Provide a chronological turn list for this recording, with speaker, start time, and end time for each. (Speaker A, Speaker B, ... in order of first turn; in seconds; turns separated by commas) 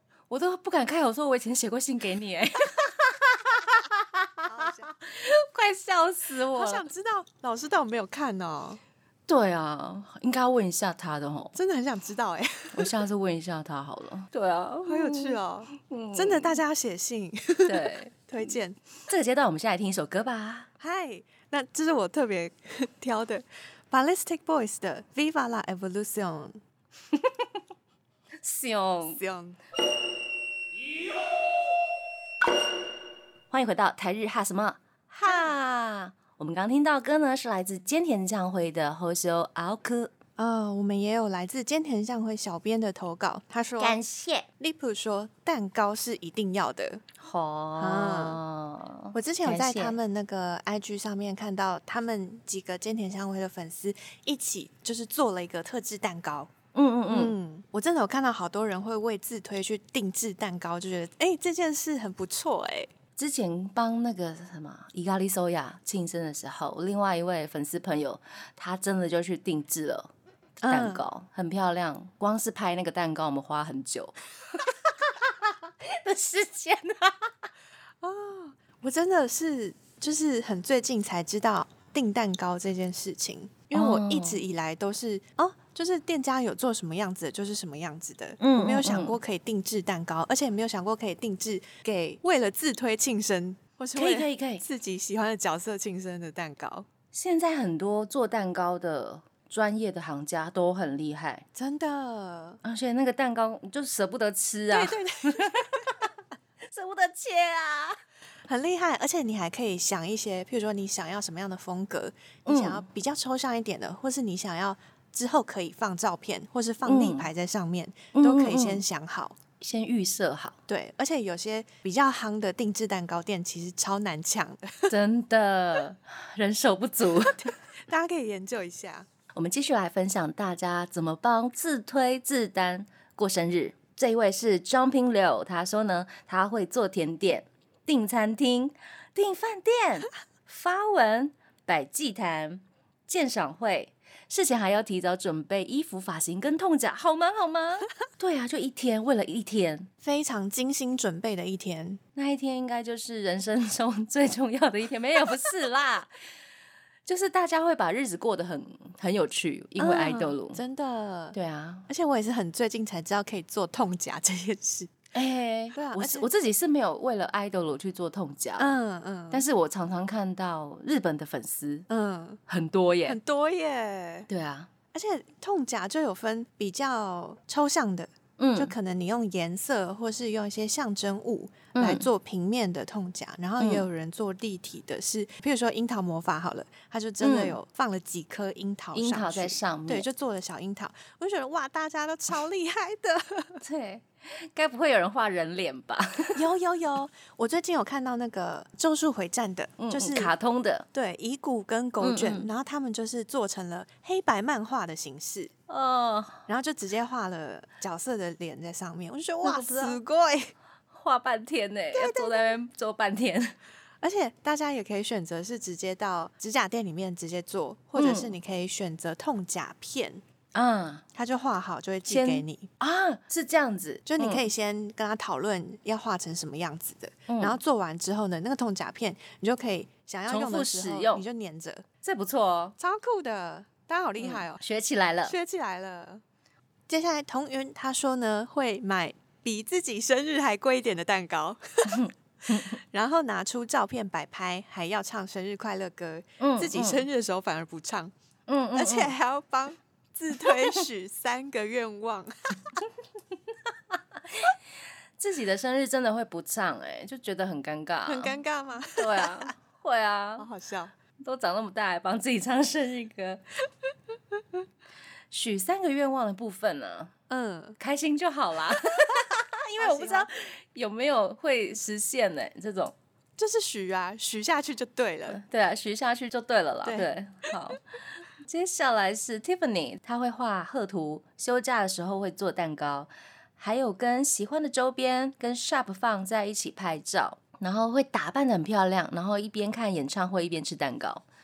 Speaker A: 0.3-6.9, Speaker B: 4.5-4.9, Speaker B: 6.5-8.8, Speaker A: 9.3-11.6, Speaker B: 11.6-13.1, Speaker A: 12.7-16.6, Speaker B: 14.9-18.8, Speaker A: 17.7-18.3, Speaker A: 19.1-20.7, Speaker B: 20.8-26.6, Speaker A: 27.1-27.5, Speaker A: 28.4-29.2, Speaker B: 29.1-29.6, Speaker A: 33.5-40.1, Speaker B: 35.2-35.6, Speaker B: 40.4-44.0, Speaker A: 43.8-44.5, Speaker B: 44.6-47.0, Speaker A: 47.2-50.0, Speaker B: 47.8-48.4, Speaker B: 49.1-56.5, Speaker A: 56.7-57.4, Speaker B: 57.1-62.9, Speaker A: 63.2-70.1, Speaker B: 70.6-71.0, Speaker A: 70.7-74.7, Speaker A: 75.2-77.5, Speaker B: 78.0-96.9, Speaker A: 83.7-84.4, Speaker A: 88.4-89.2, Speaker A: 94.0-94.6, Speaker A: 97.1-101.5, Speaker B: 101.5-102.6, Speaker A: 102.6-106.1, Speaker B: 104.7-105.8, Speaker A: 106.7-108.0, Speaker B: 108.5-119.4, Speaker A: 112.5-112.8, Speaker A: 116.8-117.3, Speaker A: 118.1-118.8, Speaker A: 119.6-120.6, Speaker B: 120.7-124.9, Speaker A: 124.9-127.5, Speaker B: 127.3-129.1, Speaker A: 129.3-149.9, Speaker B: 150.0-152.0, Speaker A: 152.2-156.1, Speaker A: 157.1-160.6, Speaker B: 159.8-161.4, Speaker A: 161.3-161.9, Speaker B: 161.9-165.0, Speaker A: 165.1-168.8, Speaker B: 165.7-166.3, Speaker B: 168.6-169.4, Speaker A: 169.3-171.9, Speaker B: 171.9-172.4, Speaker A: 172.5-173.2, Speaker B: 173.1-174.3, Speaker A: 174.3-174.7, Speaker B: 174.9-193.6, Speaker A: 178.4-178.7, Speaker A: 181.8-182.1, Speaker A: 183.6-183.8, Speaker A: 187.2-187.6, Speaker A: 188.9-190.1, Speaker A: 193.6-196.4, Speaker B: 196.3-200.3, Speaker A: 199.8-200.9, Speaker B: 200.9-205.5, Speaker A: 202.0-202.5, Speaker A: 205.7-206.4, Speaker B: 206.5-210.5, Speaker A: 209.4-210.0, Speaker A: 210.9-213.6, Speaker B: 211.9-212.6, Speaker B: 214.0-220.2, Speaker A: 217.9-218.3, Speaker A: 220.5-221.0, Speaker B: 221.2-222.7, Speaker A: 222.1-224.5, Speaker B: 224.1-231.9, Speaker A: 227.3-227.6, Speaker A: 230.3-231.2, Speaker A: 232.0-232.8, Speaker B: 232.8-234.6, Speaker A: 234.2-235.4, Speaker B: 235.2-236.2, Speaker B: 236.9-248.1, Speaker A: 241.9-242.8, Speaker A: 246.4-247.1, Speaker A: 248.5-249.2, Speaker B: 248.8-252.8, Speaker A: 254.2-254.6, Speaker A: 255.2-258.4, Speaker B: 258.1-259.5, Speaker A: 258.9-260.5, Speaker B: 260.4-260.9, Speaker A: 261.2-263.4, Speaker A: 265.3-267.1, Speaker B: 267.3-267.8, Speaker A: 267.8-272.9, Speaker B: 269.8-270.3, Speaker B: 273.4-275.4, Speaker A: 275.3-277.8, Speaker B: 276.9-277.1, Speaker A: 278.4-291.2